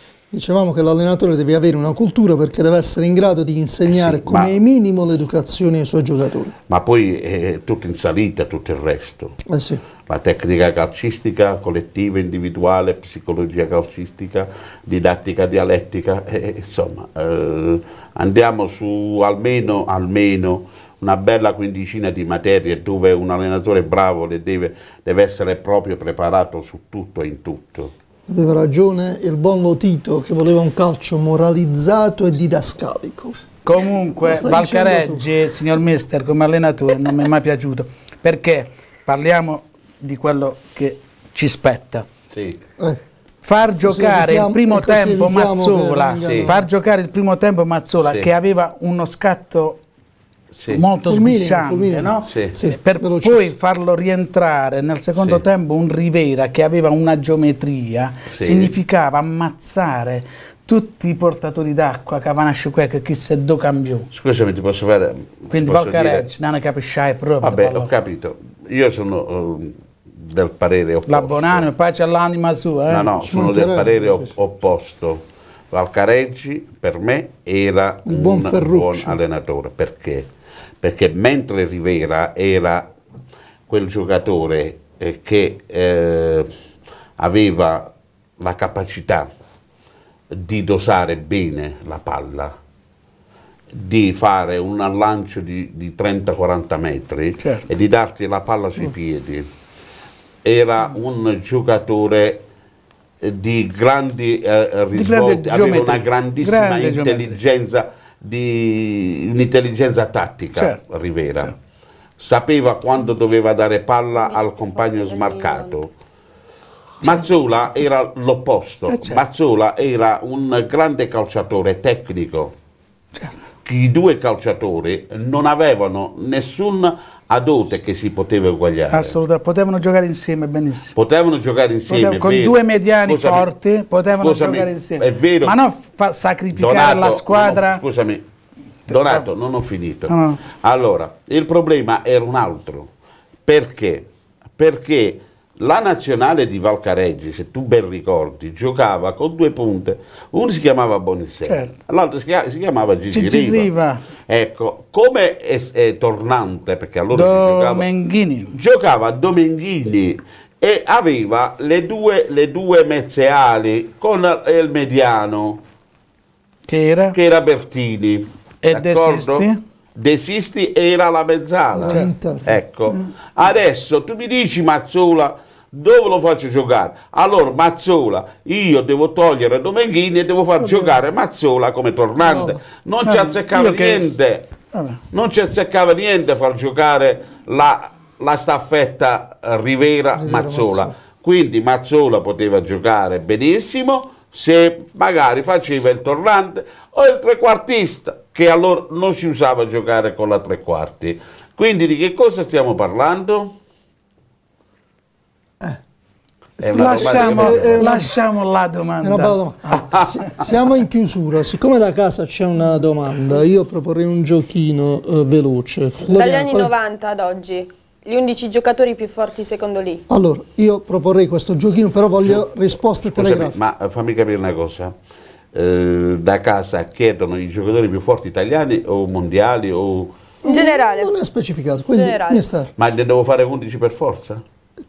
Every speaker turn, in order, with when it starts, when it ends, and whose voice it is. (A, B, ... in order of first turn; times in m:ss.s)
0:00.3-0:06.5 A
0:03.9-0:04.5 B
0:06.7-0:09.4 B
0:09.4-0:09.8 A
0:10.1-0:27.9 B
0:28.3-0:33.4 A
0:33.6-0:42.1 C
0:34.2-0:35.3 A
0:42.3-0:42.6 B
0:43.4-0:49.8 C
0:43.8-0:46.6 A
0:46.2-0:46.5 B
0:48.0-0:48.3 B
0:50.5-0:50.8 B
0:50.7-1:04.1 C
0:51.0-0:53.5 A
0:52.2-0:52.5 B
0:58.3-0:58.8 B
1:04.1-1:06.3 B
1:05.5-1:07.9 C
1:07.4-1:11.7 B
1:11.1-1:13.1 C
1:12.9-1:15.2 B
1:13.2-1:14.3 A
1:15.7-1:20.2 B
1:18.0-1:19.2 A
1:20.8-1:22.9 B
1:23.7-1:26.5 B
1:27.2-1:29.3 B
1:30.3-1:32.5 B
1:33.7-1:39.5 B
1:37.4-1:37.8 C
1:40.4-1:42.4 B
1:43.2-1:51.5 B
1:44.9-1:47.4 C
1:50.6-1:50.8 C
1:52.2-1:55.9 B
1:54.1-1:55.8 D
1:57.0-2:02.5 B
1:58.9-1:59.2 C
2:03.1-2:03.5 C
2:03.6-2:09.2 B
2:08.9-2:10.9 C
2:11.0-2:13.5 B
2:11.9-2:17.8 C
2:14.1-2:15.6 B
2:16.5-2:18.2 B
2:18.9-2:22.9 B
2:18.9-2:19.2 C
2:20.1-2:20.4 C
2:23.5-2:24.0 B
2:24.6-2:33.7 B
2:31.5-2:31.7 C
2:33.1-2:34.0 C
2:34.3-2:37.9 B
2:37.1-2:38.6 C
2:38.5-2:45.6 B
2:46.7-2:47.2 C
2:47.1-3:04.5 B
2:48.6-2:49.6 C
2:51.7-2:52.6 A
3:00.6-3:01.0 C
3:02.2-3:02.6 A
3:03.0-3:04.1 C
3:04.7-3:05.0 C
3:05.1-3:23.5 B
3:10.1-3:10.9 A
3:26.6-3:27.9 B
3:26.6-3:28.1 A
3:26.7-3:29.8 C
3:29.0-3:36.7 A
3:29.7-3:30.3 B
3:36.0-3:40.0 D
3:40.1-3:43.6 A
3:43.0-3:44.9 B
3:45.5-3:50.1 B
3:50.4-3:52.7 A
3:50.5-3:51.1 D
3:51.9-3:52.4 D
3:52.8-3:54.4 B